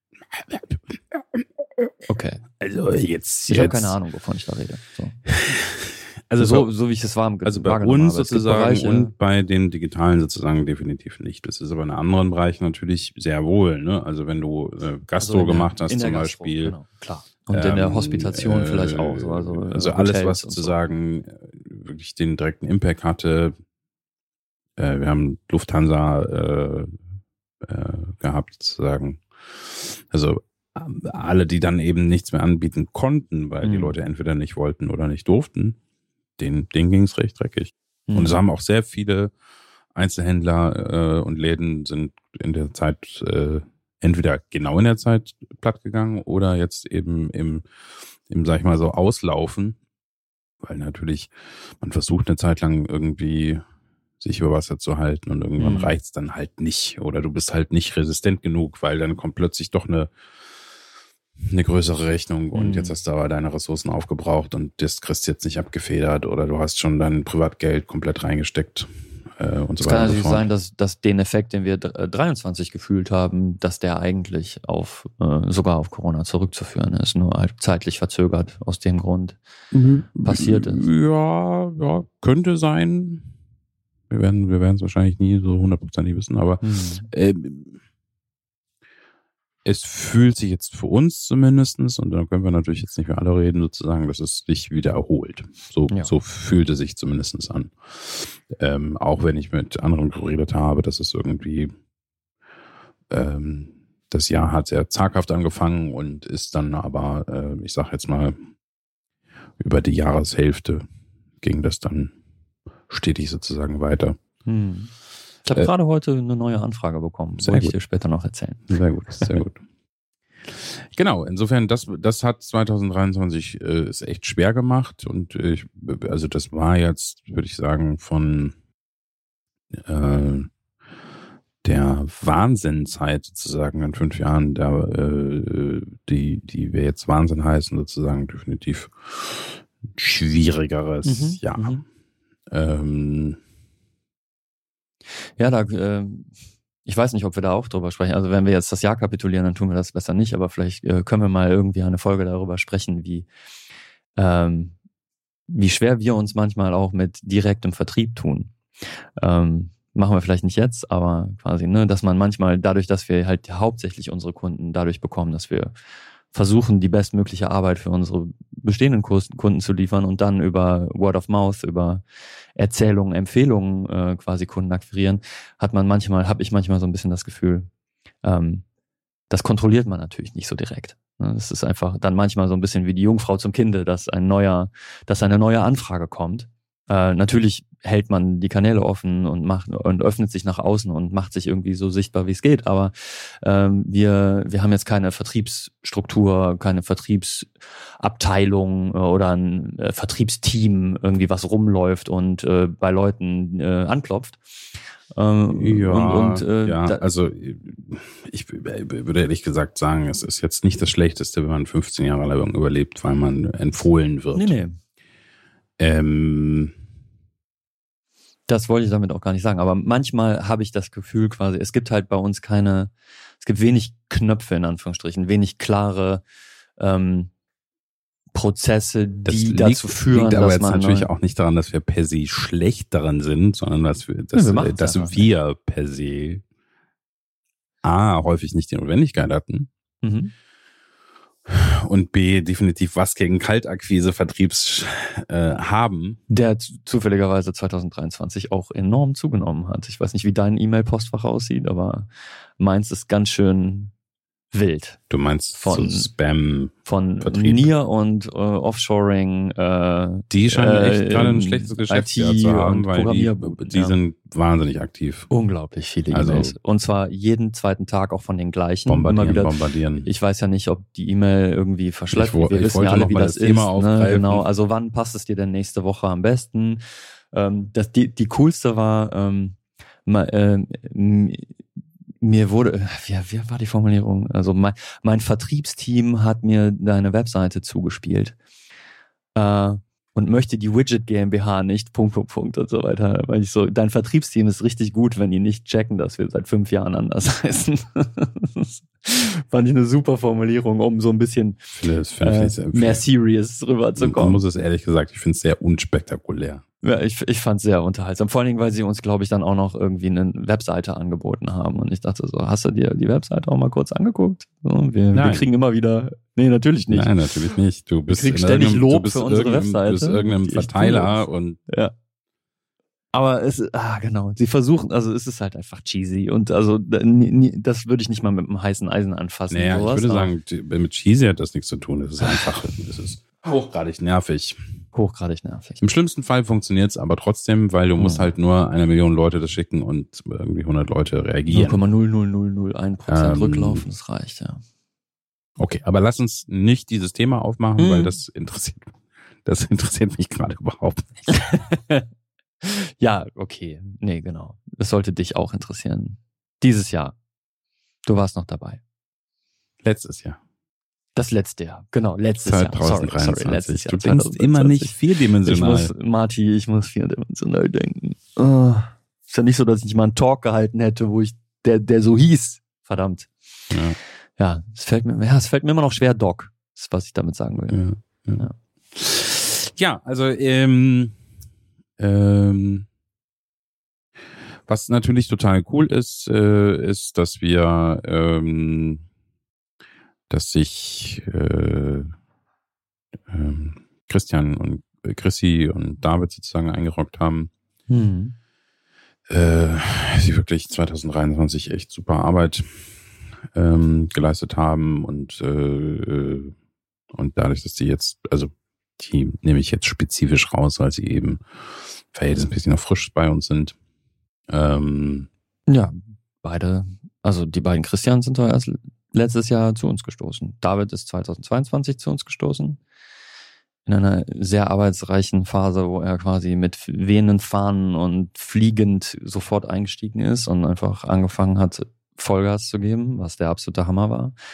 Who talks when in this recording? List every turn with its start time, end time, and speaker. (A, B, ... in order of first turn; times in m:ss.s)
0:00.3-0:01.9 A
0:02.1-0:02.4 B
0:02.6-0:04.0 A
0:03.5-0:05.2 B
0:05.3-0:06.7 A
0:06.4-0:09.1 B
0:07.4-0:16.8 A
0:15.2-0:20.7 B
0:17.5-0:23.5 A
0:24.8-0:26.9 A
0:27.6-0:35.8 A
0:33.6-0:33.9 B
0:36.4-0:39.3 A
0:38.1-0:38.4 B
0:39.9-0:47.6 A
0:48.3-0:49.8 A
0:50.6-0:53.6 A
0:54.2-1:00.1 A
0:55.6-0:55.9 B
1:01.5-1:10.5 A
1:02.5-1:03.0 B
1:09.8-1:19.4 B
1:19.7-1:23.3 A
1:20.2-1:20.8 B
1:24.1-1:27.8 A
1:26.6-1:27.1 B
1:29.6-1:41.7 A
1:43.1-1:48.4 A
1:49.6-1:50.8 A
1:51.4-1:52.1 A
1:52.9-1:54.2 A
1:54.4-1:54.9 B
1:55.4-1:59.4 B
1:57.4-1:57.7 A
1:58.7-1:59.6 A
2:00.5-2:08.5 A
2:09.7-2:10.5 A
2:11.6-2:21.8 A
2:21.0-2:21.8 B
2:22.5-2:23.4 A
2:25.4-2:26.3 B
2:26.8-2:33.3 B
2:34.2-2:34.7 B
2:35.5-2:38.5 B
2:39.2-2:45.7 B
2:46.3-2:52.0 B
2:52.6-2:57.7 B
2:58.2-2:58.6 B
2:59.3-3:24.4 B
3:25.1-3:27.0 B
3:25.5-3:34.6 A
3:34.3-3:34.8 B
3:35.8-3:36.7 A
3:38.5-3:46.2 B
3:46.8-3:47.3 B
3:48.3-3:51.1 B
3:49.2-3:56.4 A
3:54.3-3:55.3 B
3:57.8-3:59.7 A
4:00.0-4:00.3 B
4:01.5-4:06.2 A
4:06.3-4:13.9 B
4:14.5-4:15.0 B
4:15.1-4:17.7 A
4:15.5-4:16.1 B
4:16.8-4:24.0 B
4:20.3-4:25.3 A
4:25.3-4:36.8 B
4:26.1-4:26.6 A
4:28.8-4:30.1 A
4:32.1-4:34.4 A
4:37.3-4:41.5 B
4:42.2-4:48.4 B
4:49.4-5:01.6 B
5:01.7-5:03.0 A
5:02.2-5:04.4 B
5:04.0-5:06.6 A
5:06.8-5:17.1 B
5:15.1-5:15.5 A
5:16.9-5:21.6 A
5:18.1-5:21.9 B
5:23.1-5:30.3 B
5:29.5-5:34.6 A
5:32.2-5:32.6 B
5:34.9-5:35.8 B
5:35.8-5:41.8 A
5:38.0-5:38.3 B
5:41.5-5:44.6 B
5:43.1-5:43.8 A
5:45.6-5:51.3 A
5:47.8-5:48.1 B
5:51.3-5:52.0 B
5:52.6-5:57.2 B
5:58.0-5:58.8 B
5:59.8-6:00.4 A
6:01.2-6:13.3 B
6:02.4-6:05.9 A
6:13.7-6:14.0 A
6:14.4-6:17.8 B
6:17.7-6:21.1 A
6:22.0-6:22.8 A
6:24.7-6:29.0 A
6:30.3-6:32.1 A
6:33.3-6:37.5 A
6:37.9-6:38.3 B
6:39.3-6:42.9 A
6:43.5-6:46.5 A
6:47.1-6:51.4 A
6:52.1-6:53.8 A
6:54.5-6:55.3 A
6:55.7-7:02.8 B
7:03.8-7:14.3 B